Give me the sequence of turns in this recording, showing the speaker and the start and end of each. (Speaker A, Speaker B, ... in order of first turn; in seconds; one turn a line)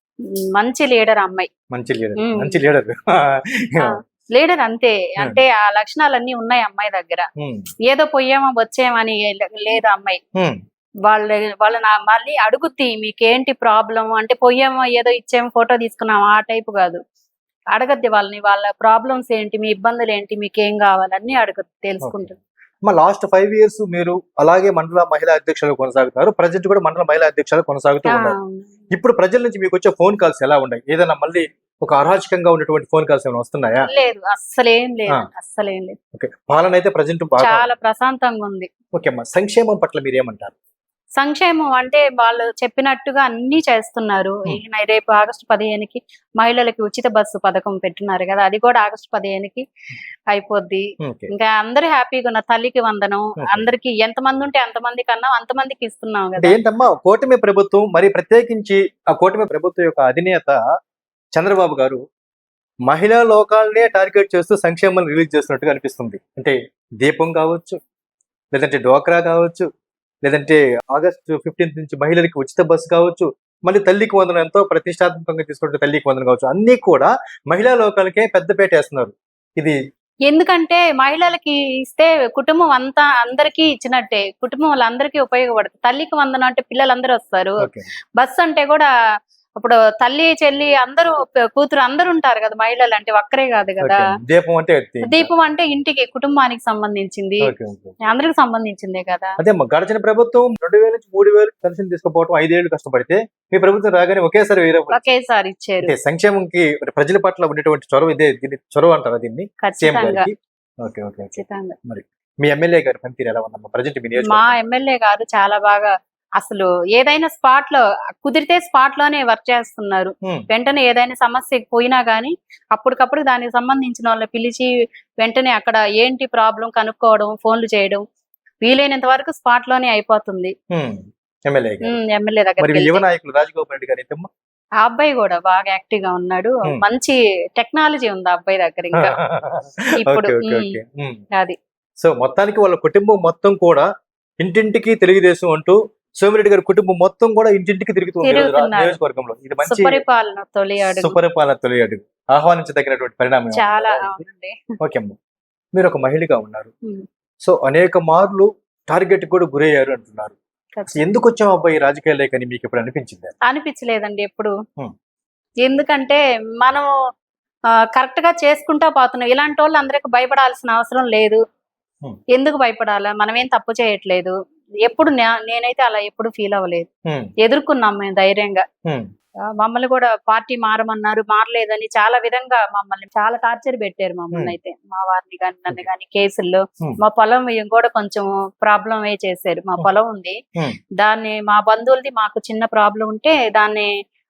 Speaker A: 0.6-1.5
Speaker B: 1.7-4.0
Speaker A: 2.2-2.6
Speaker A: 3.8-7.3
Speaker B: 7.4-7.7
Speaker A: 7.9-10.2
Speaker A: 11.1-17.0
Speaker A: 17.7-22.4
Speaker B: 22.0-28.4
Speaker A: 28.1-28.7
Speaker B: 28.9-33.9
Speaker A: 33.9-36.0
Speaker B: 36.1-37.7
Speaker A: 37.4-38.7
Speaker B: 38.9-40.5
Speaker A: 41.2-49.6
Speaker A: 50.3-56.6
Speaker B: 51.0-51.3
Speaker B: 53.4-53.7
Speaker B: 56.4-60.6
Speaker B: 61.4-62.0
Speaker B: 62.9-67.8
Speaker B: 68.5-69.7
Speaker B: 70.2-79.8
Speaker A: 80.3-87.6
Speaker B: 87.6-87.9
Speaker A: 88.2-88.9
Speaker A: 89.6-94.1
Speaker B: 93.8-95.3
Speaker A: 95.0-97.4
Speaker B: 97.4-98.0
Speaker A: 98.0-99.4
Speaker B: 99.4-105.0
Speaker A: 104.9-105.9
Speaker B: 105.8-114.6
Speaker A: 109.6-110.3
Speaker A: 111.3-111.8
Speaker A: 114.2-124.7
Speaker A: 125.2-128.0
Speaker A: 128.6-130.5
Speaker B: 130.7-132.0
Speaker A: 131.8-133.0
Speaker B: 132.6-134.3
Speaker A: 134.8-139.1
Speaker B: 139.0-141.2
Speaker A: 140.0-140.8
Speaker B: 142.0-143.9
Speaker B: 144.4-150.0
Speaker A: 148.2-149.0
Speaker A: 149.6-151.2
Speaker B: 150.8-154.2
Speaker A: 153.5-154.6
Speaker B: 154.8-155.2
Speaker B: 155.8-156.7
Speaker B: 157.4-160.4
Speaker A: 160.8-161.0
Speaker B: 160.9-163.3
Speaker A: 163.5-164.5
Speaker A: 165.6-166.9
Speaker A: 167.9-171.4
Speaker A: 172.3-176.9
Speaker A: 177.4-178.6
Speaker A: 179.6-190.4
Speaker A: 191.0-193.9